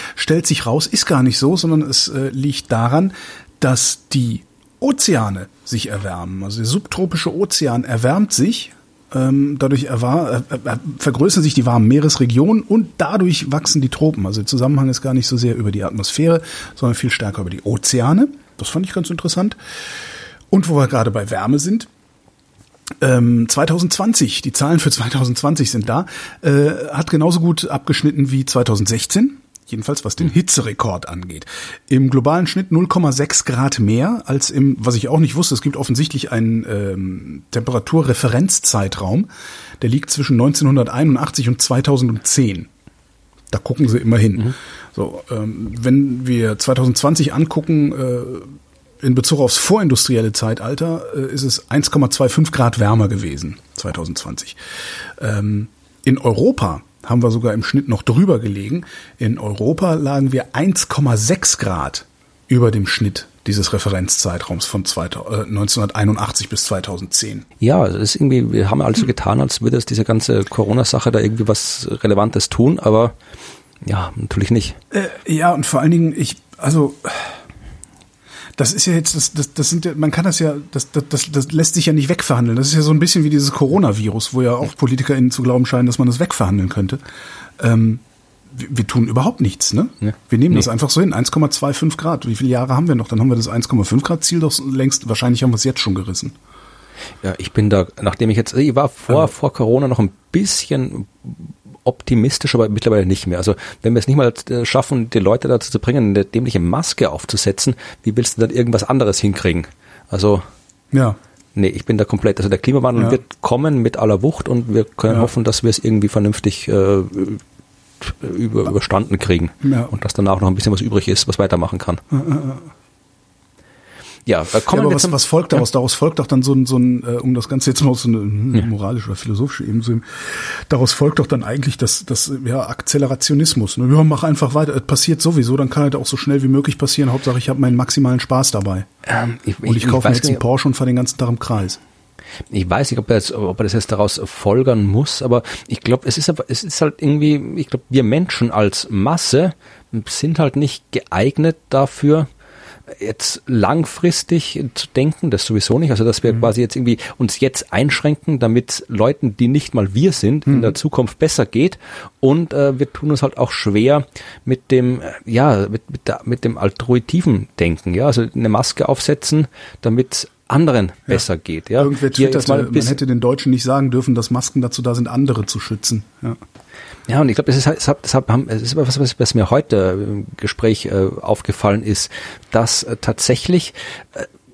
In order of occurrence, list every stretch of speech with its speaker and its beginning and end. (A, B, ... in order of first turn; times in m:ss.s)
0:00.1-0:19.6 A
0:20.5-0:21.9 A
0:23.0-0:39.3 A
0:39.8-0:42.7 A
0:43.5-0:54.6 A
0:55.2-1:07.4 A
1:07.6-1:13.1 B
1:13.8-1:14.8 B
1:14.9-1:17.4 A
1:18.6-1:27.0 A
1:27.6-1:36.4 A
1:37.2-1:50.5 B
1:50.9-1:51.2 A
1:51.6-1:57.4 B
1:58.0-2:02.0 B
1:59.6-1:59.9 A
2:02.1-2:02.7 A
2:04.3-2:05.2 B
2:04.7-2:18.9 A
2:19.0-2:20.4 B
2:19.6-2:21.8 A
2:22.5-2:32.3 B
2:32.9-2:53.0 B
2:40.5-2:40.7 A
2:51.8-2:56.4 A
2:57.1-3:04.3 B